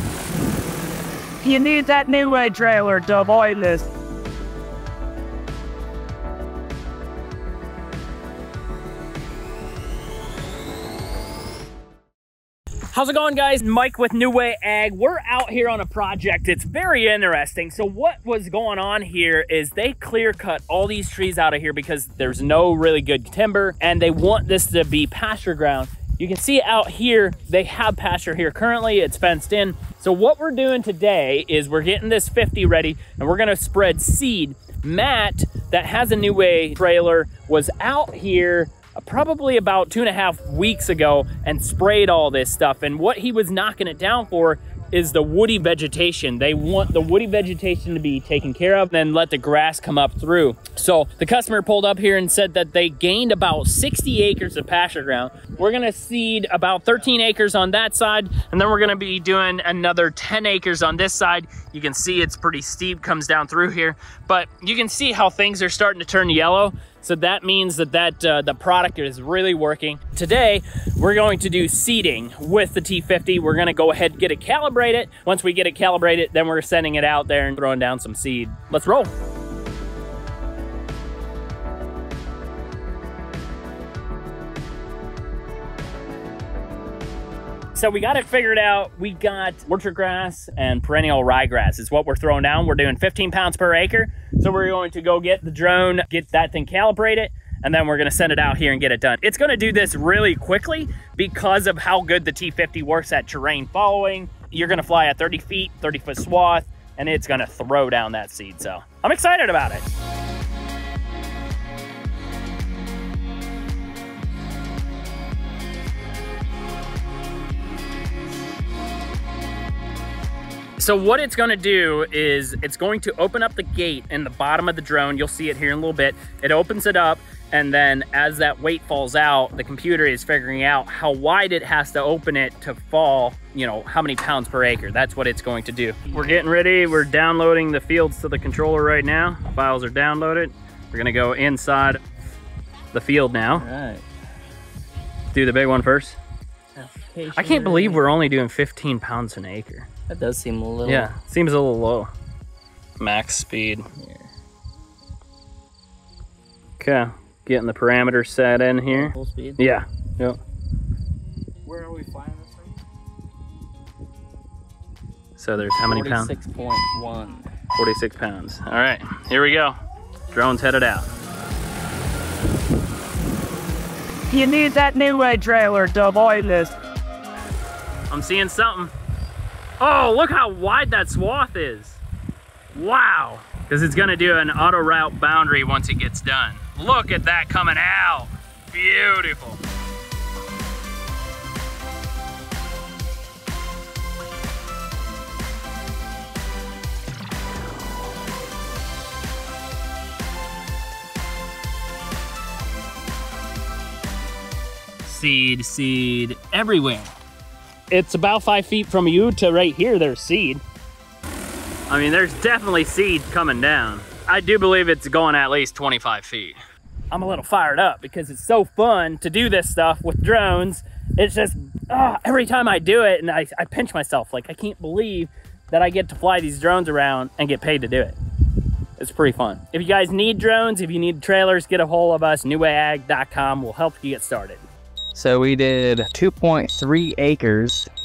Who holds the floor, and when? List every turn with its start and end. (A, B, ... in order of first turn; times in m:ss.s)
0:01.4-0:03.9 A
0:12.9-1:19.1 B
1:27.7-1:49.8 B
2:00.8-2:22.0 B
2:22.9-2:23.7 B
2:23.5-2:24.0 C
2:25.3-2:26.2 B
2:26.8-2:28.0 C
2:27.3-2:29.9 B
2:30.1-2:31.1 C
2:30.8-2:32.1 B
2:33.0-2:33.8 B
2:34.0-2:34.3 C
2:36.8-2:40.4 B
2:38.8-2:39.8 C
2:41.7-2:42.4 C
2:45.4-2:46.3 B
2:45.8-2:47.5 C
2:47.7-2:49.7 B
2:50.3-2:51.0 B
2:54.3-2:56.7 A
2:58.1-2:58.9 B
2:59.8-3:02.0 B
3:02.7-3:09.6 B
3:25.0-3:27.1 B
3:27.9-3:30.6 B
3:31.9-3:36.6 B
3:37.1-3:48.1 B
3:49.0-3:54.6 B
3:55.1-3:57.9 C